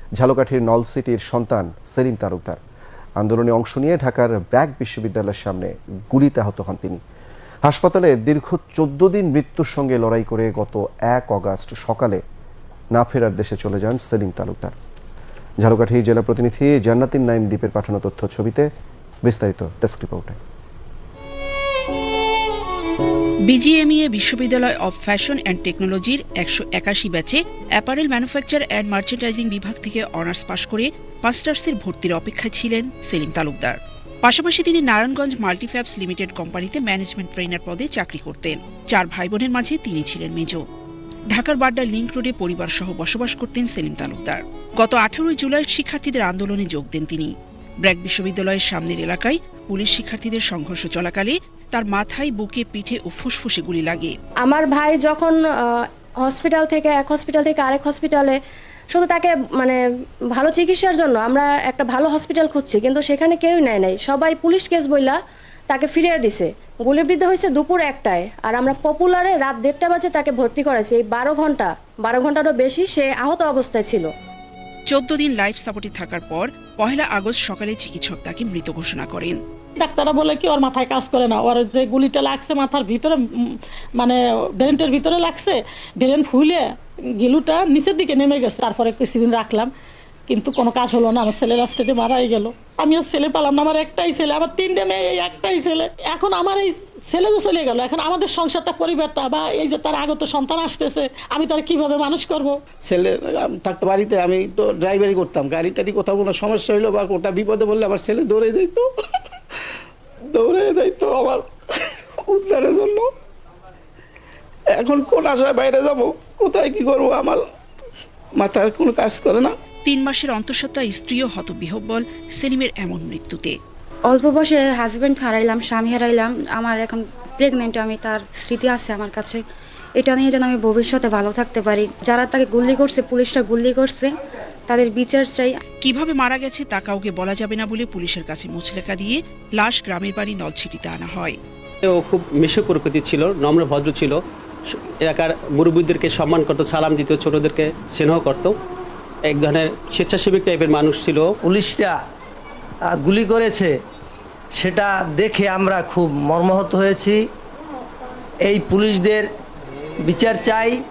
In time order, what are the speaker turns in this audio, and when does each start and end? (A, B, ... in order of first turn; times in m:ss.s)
0:00.2-0:02.6 A
0:03.2-0:07.0 A
0:07.6-0:12.2 A
0:12.9-0:14.7 A
0:15.6-0:18.7 A
0:19.2-0:20.4 A
0:23.5-0:40.6 B
0:41.3-0:47.3 B
0:47.8-0:54.1 B
0:54.4-0:58.4 C
0:58.9-0:59.8 C
1:00.3-1:05.2 C
1:05.7-1:14.1 C
1:14.9-1:19.4 B
1:19.8-1:26.6 D
1:27.2-1:29.7 D
1:30.3-1:42.6 D
1:42.8-1:48.9 E
1:50.3-1:51.4 E
1:52.2-1:53.1 E
1:54.7-1:57.4 E
1:58.4-1:59.5 E
1:59.8-2:03.6 B
2:04.0-2:15.6 F
2:15.8-2:21.4 B
2:21.9-2:24.1 G
2:25.0-2:28.5 G
2:29.3-2:31.2 G
2:31.4-2:32.0 H
2:32.9-2:33.7 H
2:34.5-2:37.2 H
2:38.4-2:39.3 H
2:40.0-2:40.8 H